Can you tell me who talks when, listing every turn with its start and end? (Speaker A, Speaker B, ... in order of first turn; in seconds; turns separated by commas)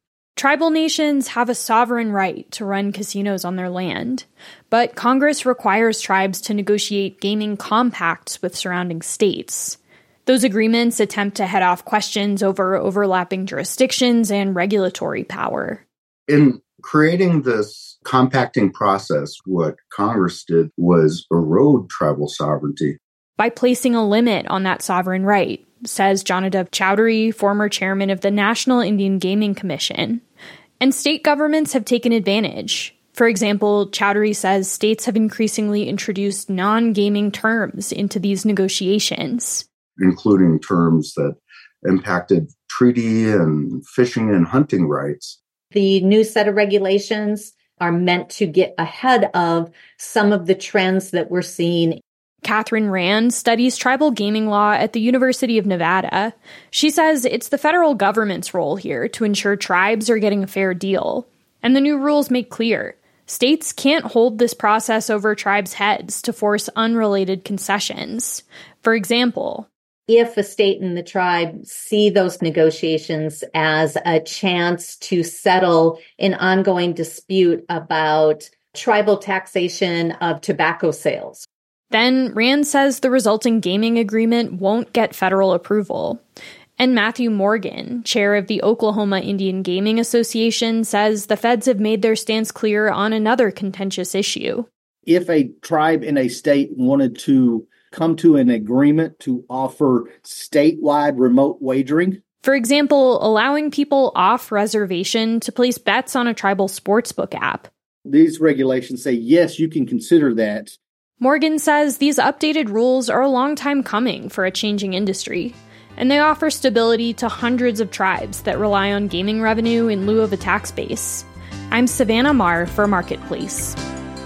Speaker A: 0.3-15.8, Speaker B: 16.3-23.0, Speaker A: 23.4-30.2, Speaker A: 30.8-39.6, Speaker B: 40.0-45.4, Speaker C: 45.7-52.0, Speaker A: 52.4-69.7, Speaker C: 70.1-81.4, Speaker A: 81.9-86.2, Speaker A: 86.8-94.7, Speaker D: 95.0-102.2, Speaker A: 102.4-107.7, Speaker D: 108.1-110.8, Speaker A: 111.2-123.8